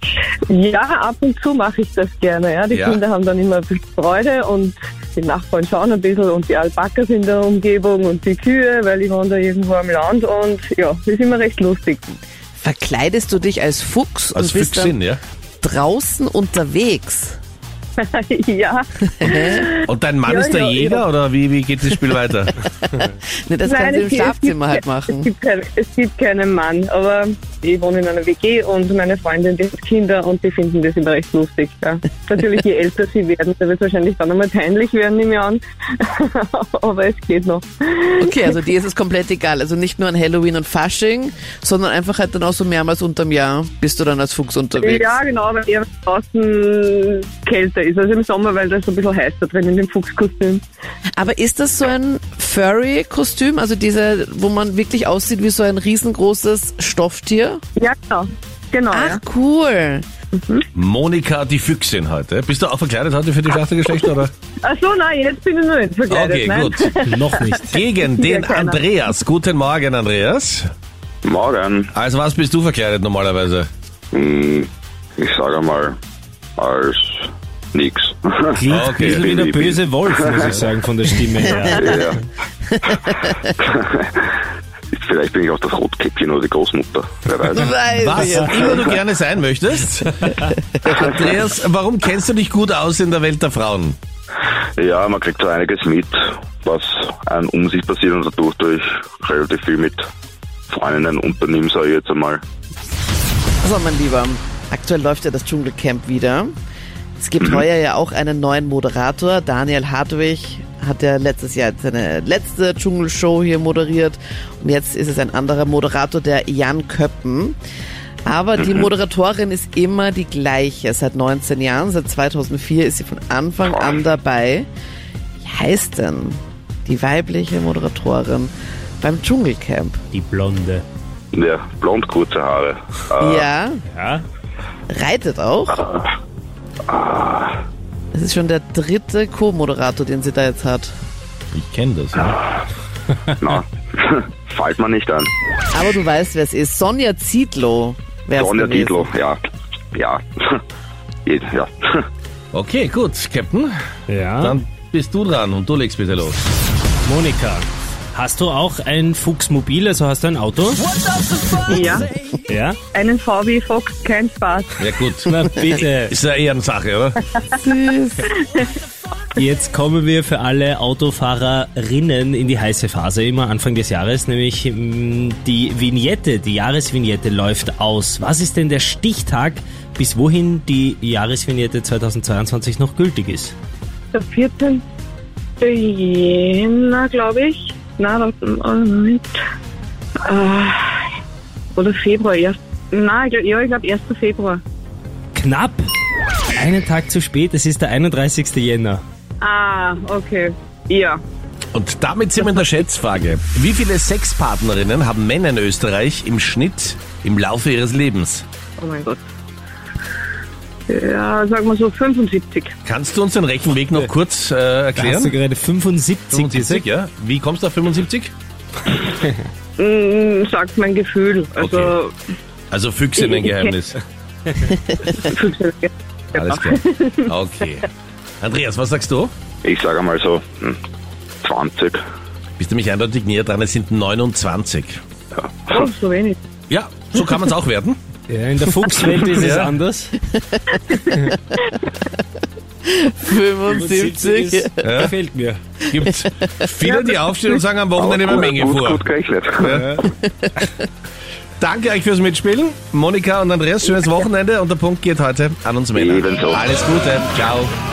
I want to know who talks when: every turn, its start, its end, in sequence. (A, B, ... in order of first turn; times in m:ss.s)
0:00.5-0:12.0 A
0:02.7-0:03.0 B
0:12.6-0:15.0 C
0:14.3-0:15.2 B
0:15.6-0:17.4 C
0:18.0-0:21.0 A
0:19.2-0:19.7 C
0:19.8-0:22.6 B
0:22.6-0:25.3 C
0:23.6-0:38.2 A
0:38.2-0:45.2 C
0:44.8-0:50.6 A
0:51.2-0:57.6 C
0:57.8-0:59.2 A
0:58.9-1:00.0 C
1:00.4-1:00.6 A
1:00.8-1:04.3 B
1:04.6-1:08.8 A
1:06.1-1:06.9 B
1:07.0-1:07.7 D
1:07.7-1:10.7 B
1:11.2-1:11.9 E
1:11.9-1:13.7 B
1:14.1-1:14.7 E
1:15.2-1:16.0 E
1:16.6-1:20.5 E
1:18.5-1:22.2 D
1:18.7-1:19.3 B
1:21.7-1:22.2 E
1:21.7-1:22.0 C
1:22.7-1:23.5 C
1:23.1-1:24.3 E
1:24.9-1:27.7 E
1:27.5-1:29.0 C
1:27.9-1:30.3 B
1:30.8-1:31.1 C
1:30.8-1:34.0 B
1:34.8-1:40.0 E
1:40.7-1:42.4 E
1:43.6-1:46.5 C
1:47.2-1:57.6 C
1:58.2-2:04.7 C
1:58.6-1:58.8 E
2:03.7-2:04.0 E
2:05.4-2:10.0 C
2:10.1-2:10.8 D
2:11.3-2:13.5 E
2:13.2-2:13.8 C
2:13.9-2:14.2 D
2:14.9-2:15.9 C
2:16.9-2:17.6 E
2:18.1-2:20.9 C
2:21.5-2:22.4 B
2:23.4-2:25.3 E
2:25.7-2:29.1 C
2:28.4-2:29.4 E
2:29.9-2:30.6 E
2:31.2-2:32.1 E
2:32.5-2:33.7 B
2:34.1-2:34.6 D
2:34.4-2:36.4 B
2:37.0-2:40.8 D
2:41.7-2:42.1 A
2:42.5-2:42.8 D
2:42.9-2:44.8 A
2:44.8-2:47.2 B
2:45.2-2:46.1 D
2:47.6-2:48.3 C
2:49.4-3:03.5 D
3:04.1-3:04.8 A
3:05.6-3:09.4 A
3:10.2-3:11.0 A
3:11.7-3:14.6 A
3:15.3-3:15.8 D
3:16.6-3:19.0 D
3:19.4-3:21.2 A
3:21.7-3:28.4 B
3:28.8-3:29.2 A
3:30.9-3:32.7 A
3:32.8-3:35.4 B
3:35.0-3:36.8 D
3:36.3-3:38.3 B
3:39.0-3:39.4 D
3:39.8-3:42.1 A
3:41.6-3:41.9 B
3:42.7-3:44.0 B
3:43.2-3:43.7 A
3:45.1-3:47.3 A
3:46.3-3:47.9 B
3:48.4-3:49.3 B
3:49.6-3:50.8 E
3:51.4-3:52.0 E
3:52.6-3:55.0 B
3:55.4-3:55.8 E
3:55.7-3:56.4 A
3:56.7-3:58.0 B
3:58.3-4:00.2 D
3:59.3-3:59.7 B
4:00.3-4:01.6 C
4:02.8-4:04.9 C
4:03.7-4:05.7 D
4:04.8-4:05.2 B
4:05.9-4:09.0 B
4:06.8-4:07.3 A
4:08.0-4:10.1 E
4:09.6-4:10.0 B
4:10.0-4:10.8 C
4:11.6-4:17.7 B
4:16.0-4:16.6 E